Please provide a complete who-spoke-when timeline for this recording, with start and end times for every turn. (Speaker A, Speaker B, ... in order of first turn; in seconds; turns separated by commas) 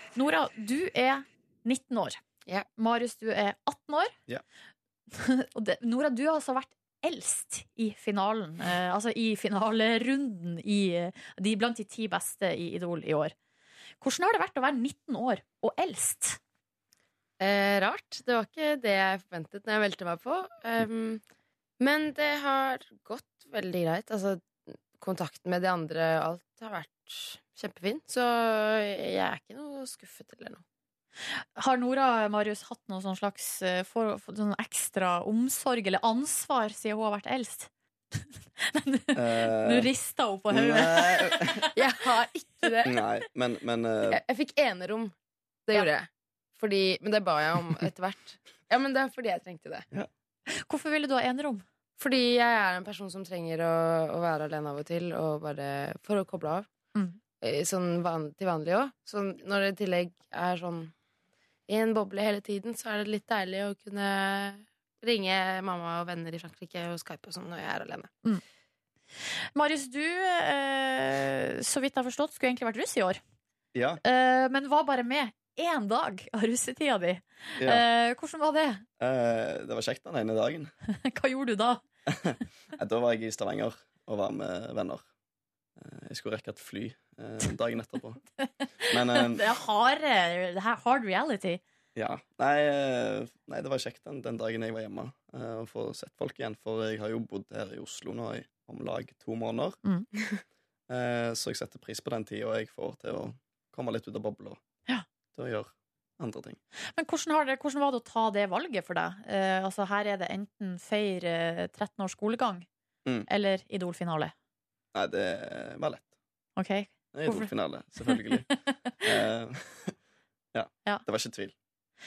Speaker A: 0.2-2.2, Speaker A: 2.8-4.1, Speaker A: 5.1-13.3, Speaker A: 14.0-16.4, Speaker B: 17.4-21.2, Speaker B: 21.8-30.6, Speaker A: 31.6-41.7, Speaker C: 39.1-39.9, Speaker C: 40.5-41.6, Speaker B: 41.7-43.0, Speaker C: 42.9-44.2, Speaker B: 44.1-45.1, Speaker B: 45.7-49.9, Speaker A: 50.6-51.6, Speaker B: 52.0-56.7, Speaker B: 57.4-60.9, Speaker B: 61.7-68.1, Speaker A: 69.5-73.2, Speaker C: 73.7-74.0, Speaker A: 74.0-78.8, Speaker C: 77.6-77.8, Speaker C: 79.0-80.7, Speaker A: 81.0-81.8, Speaker C: 82.1-85.0, Speaker C: 85.8-88.2, Speaker A: 88.4-91.6, Speaker C: 88.9-89.5, Speaker C: 92.0-99.8, Speaker C: 100.9-104.6, Speaker C: 105.3-106.6, Speaker A: 107.0-112.7, Speaker A: 113.3-114.3, Speaker C: 114.9-116.1, Speaker A: 116.6-117.5, Speaker C: 117.1-118.5, Speaker A: 118.1-119.0, Speaker C: 119.0-120.0, Speaker C: 120.5-121.5